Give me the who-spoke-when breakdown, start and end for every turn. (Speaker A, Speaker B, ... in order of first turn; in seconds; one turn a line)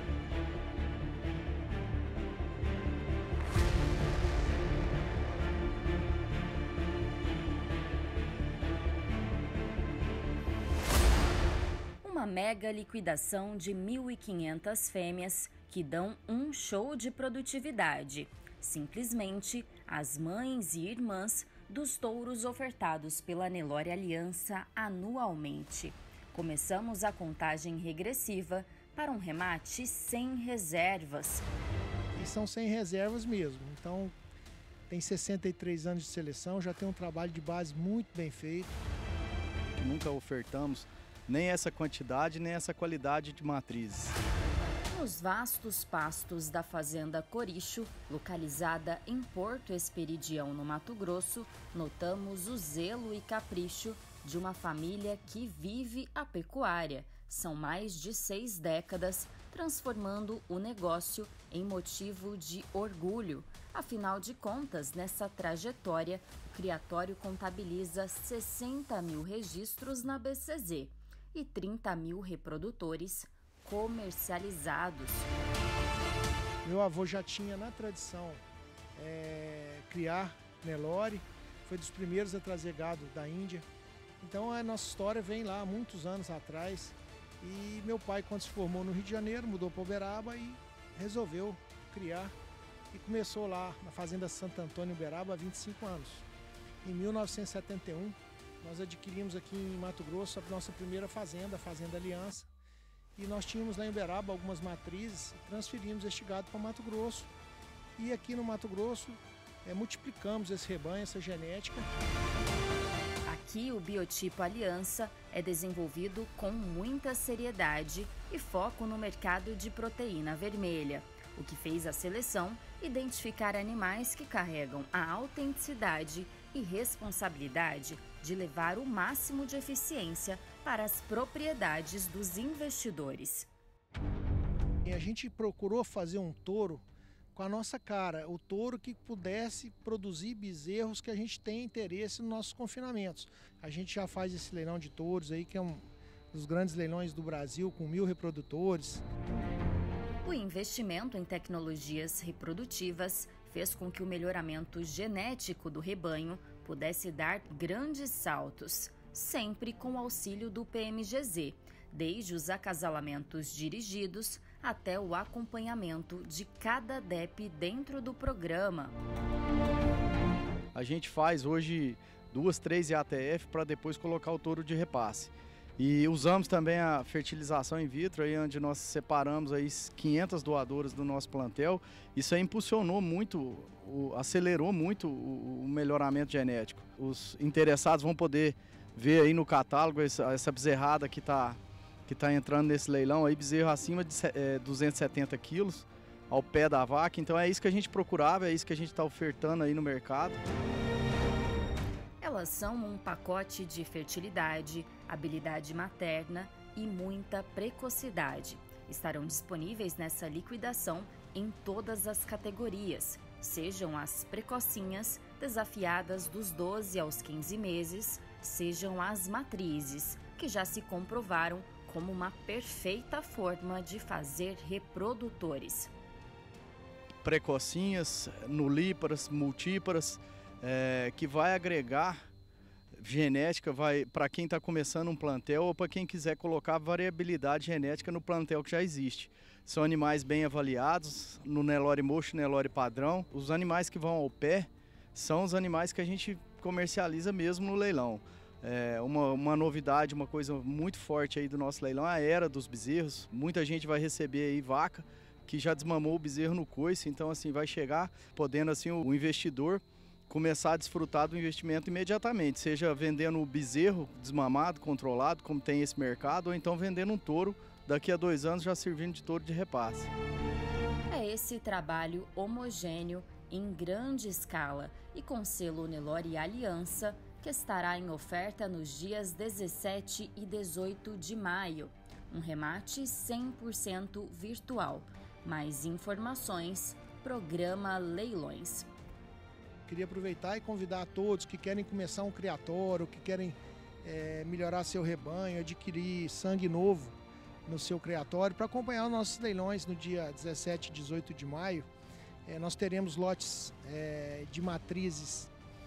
Speaker A: 12.0-31.5
Speaker B: 32.2-34.1
Speaker B: 34.9-38.8
Speaker C: 39.8-44.1
Speaker A: 44.9-75.3
Speaker B: 76.6-78.4
Speaker B: 79.0-83.7
Speaker B: 84.2-92.3
Speaker B: 92.9-96.3
Speaker B: 96.8-102.5
Speaker B: 103.2-107.3
Speaker B: 108.0-111.9
Speaker A: 113.3-133.5
Speaker B: 134.8-136.8
Speaker B: 137.3-149.0
Speaker A: 150.2-169.0
Speaker C: 170.8-200.4
Speaker A: 202.2-225.9
Speaker C: 227.2-232.2
Speaker C: 233.0-270.1
Speaker A: 271.1-288.9
Speaker B: 289.9-301.9
Speaker B: 302.4-305.5